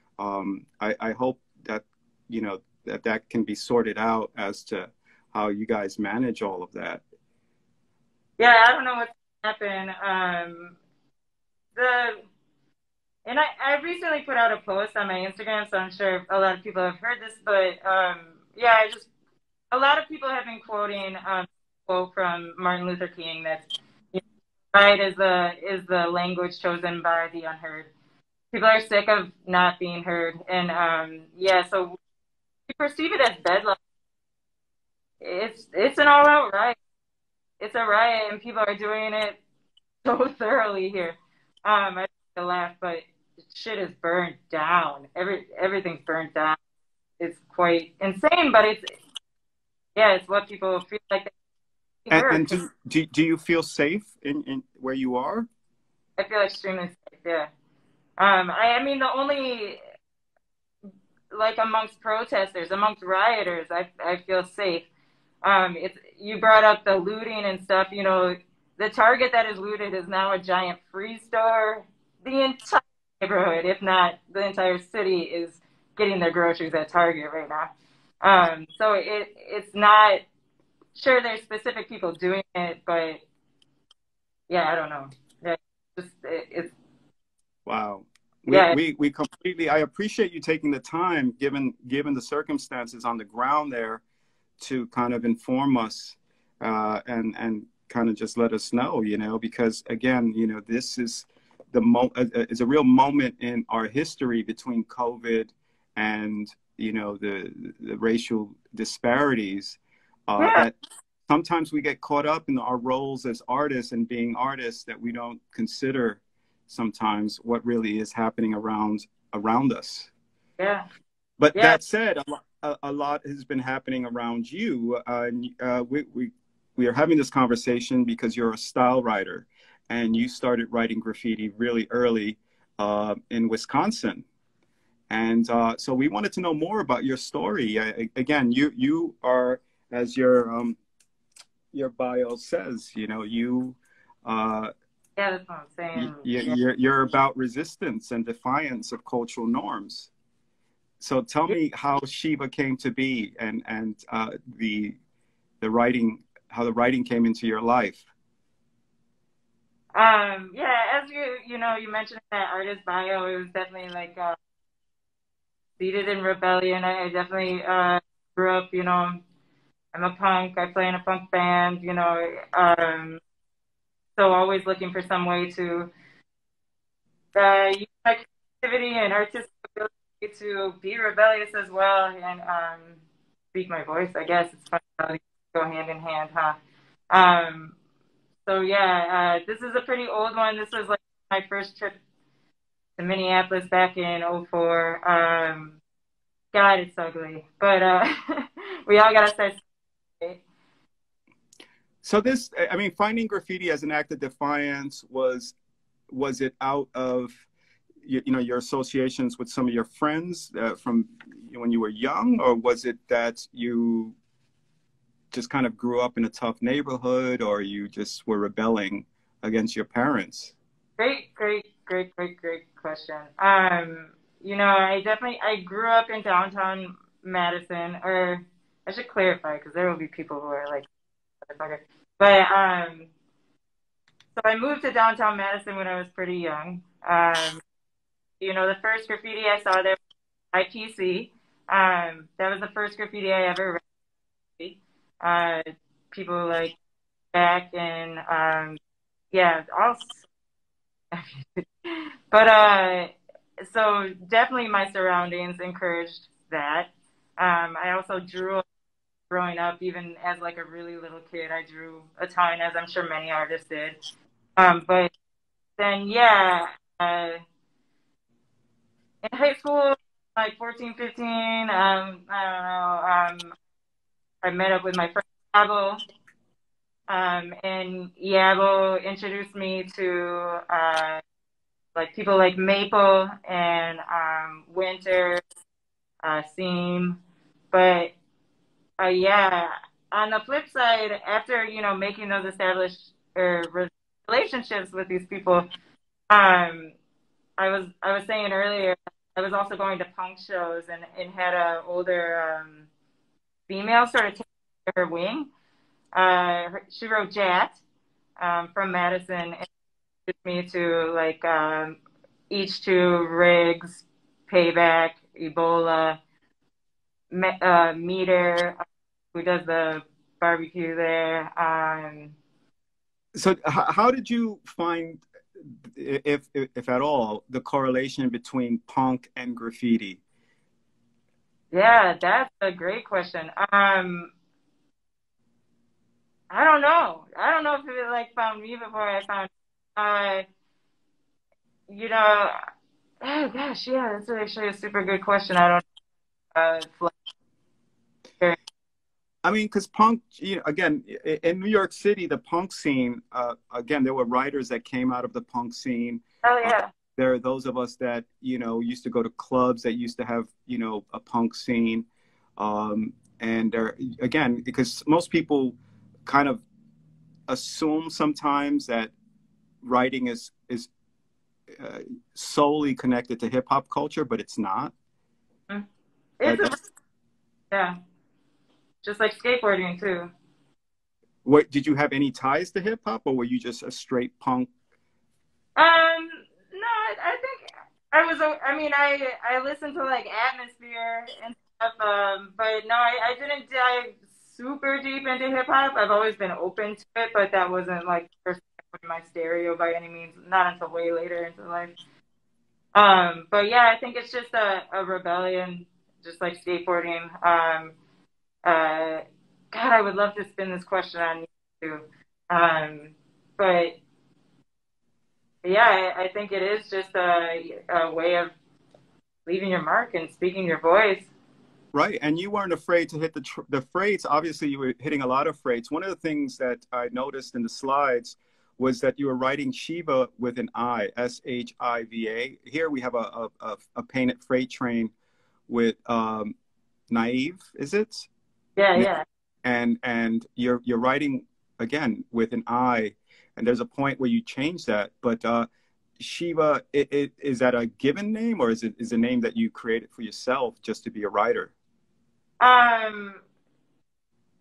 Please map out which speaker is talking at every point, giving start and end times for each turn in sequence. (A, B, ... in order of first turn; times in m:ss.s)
0:00.2-0:07.0 A
0:08.4-0:10.8 B
0:11.8-0:12.2 B
0:13.2-0:19.1 B
0:19.7-0:24.2 B
0:24.7-0:27.9 B
0:28.5-0:32.0 B
0:32.7-0:33.8 B
0:35.2-0:36.8 B
0:37.6-0:39.4 B
0:40.0-0:46.6 B
0:47.2-0:48.9 B
0:50.0-0:51.3 B
0:52.1-0:52.6 B
0:52.1-0:55.5 A
0:56.2-0:57.5 B
0:58.2-0:59.8 B
1:01.3-1:04.9 B
1:05.4-1:17.7 B
1:18.2-1:20.2 B
1:21.0-1:23.2 B
1:24.5-1:26.7 B
1:27.7-1:34.0 A
1:28.5-1:28.8 B
1:34.6-1:50.7 A
1:50.4-1:50.7 B
1:51.3-2:00.1 A
2:00.6-2:00.8 B
2:01.4-2:14.2 A
2:01.5-2:01.8 B
2:15.1-2:20.8 A
2:21.7-2:24.7 A
2:25.2-2:26.6 B
2:26.0-2:30.1 A
2:31.0-2:35.0 A
2:35.6-2:38.0 A
2:39.9-2:44.4 B
2:45.8-2:49.2 B
2:49.9-2:53.2 B
2:54.2-2:55.9 B
2:57.4-3:03.0 B
3:03.5-3:06.6 B
3:07.1-3:07.8 B
3:08.5-3:12.0 B
3:13.0-3:15.8 B
3:16.5-3:19.6 B
3:22.0-3:25.6 A
3:26.1-3:27.4 A
3:28.0-3:34.2 A
3:35.3-3:40.6 A
3:41.0-3:50.9 B
3:51.4-3:53.1 B
3:54.4-3:57.6 B
3:58.4-4:00.0 B
4:00.5-4:03.8 B
4:04.6-4:06.8 B
4:07.3-4:08.8 B
4:09.3-4:10.2 B
4:11.1-4:18.6 B
4:19.3-4:24.0 B
4:24.6-4:25.1 B
4:25.8-4:27.4 B
4:29.2-4:33.5 B
4:34.4-4:36.0 B
4:37.1-4:41.2 B
4:42.0-4:45.4 B
4:46.2-4:47.2 B
4:47.7-4:48.1 B
4:49.0-4:55.7 B
4:56.3-4:57.0 B
4:57.6-5:02.9 B
5:03.7-5:05.5 B
5:06.1-5:07.8 B
5:08.4-5:09.7 B
5:10.3-5:12.0 B
5:12.5-5:16.2 B
5:17.3-5:18.8 B
5:19.3-5:22.4 B
5:23.4-5:30.2 A
5:31.7-5:34.3 B
5:36.5-5:40.5 B
5:41.9-5:42.6 B
5:43.2-5:45.8 B
5:46.5-5:47.1 B
5:49.4-6:02.1 A
5:56.4-5:56.9 B
6:02.6-6:06.6 A
6:07.5-6:09.1 A
6:09.8-6:10.9 A
6:11.8-6:14.9 A
6:16.4-6:16.8 B
6:16.4-6:16.7 A
6:17.7-6:18.0 B
6:19.0-6:20.3 B
6:21.4-6:24.7 A
6:25.8-6:42.0 B
6:43.0-6:47.9 B
6:48.6-6:54.0 B
6:55.6-6:58.5 B
6:59.5-7:01.3 B
7:01.9-7:15.1 A
7:15.7-7:16.5 A
7:17.1-7:18.3 A
7:18.8-7:19.2 B
7:19.6-7:25.7 A
7:26.2-7:31.7 A
7:32.6-7:33.4 B